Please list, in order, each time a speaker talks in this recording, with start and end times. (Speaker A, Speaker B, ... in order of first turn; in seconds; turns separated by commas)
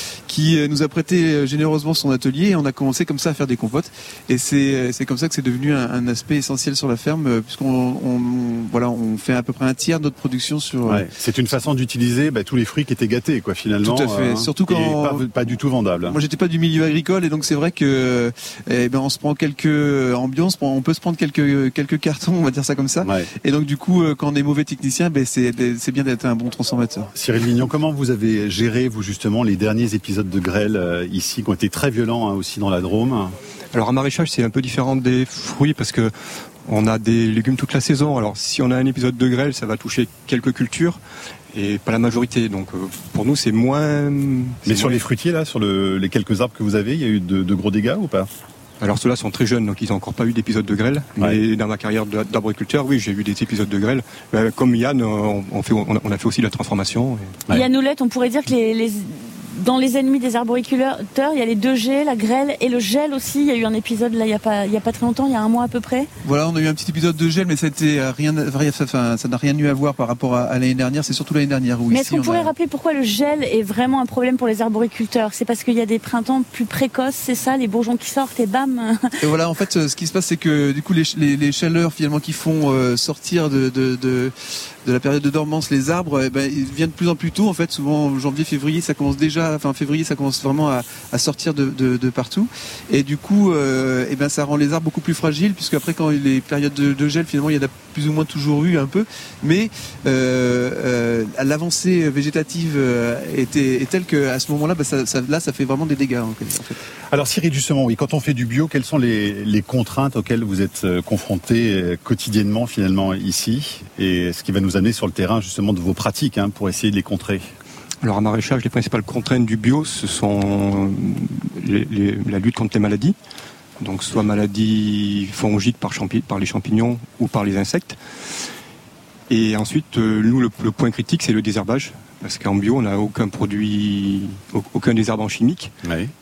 Speaker A: 0.3-11.1, Speaker B: 10.9-16.2, Speaker A: 13.8-15.2, Speaker A: 16.1-27.1, Speaker B: 23.0-23.3, Speaker B: 27.1-33.4, Speaker C: 33.7-36.1, Speaker C: 36.7-41.0, Speaker C: 41.5-45.0, Speaker B: 44.6-48.3, Speaker C: 48.8-57.4, Speaker D: 57.5-66.1, Speaker A: 66.2-72.5, Speaker D: 71.9-79.1, Speaker A: 79.2-106.8, Speaker B: 107.1-117.5, Speaker C: 118.0-123.2, Speaker C: 123.8-128.0, Speaker C: 129.3-135.8, Speaker B: 135.8-136.1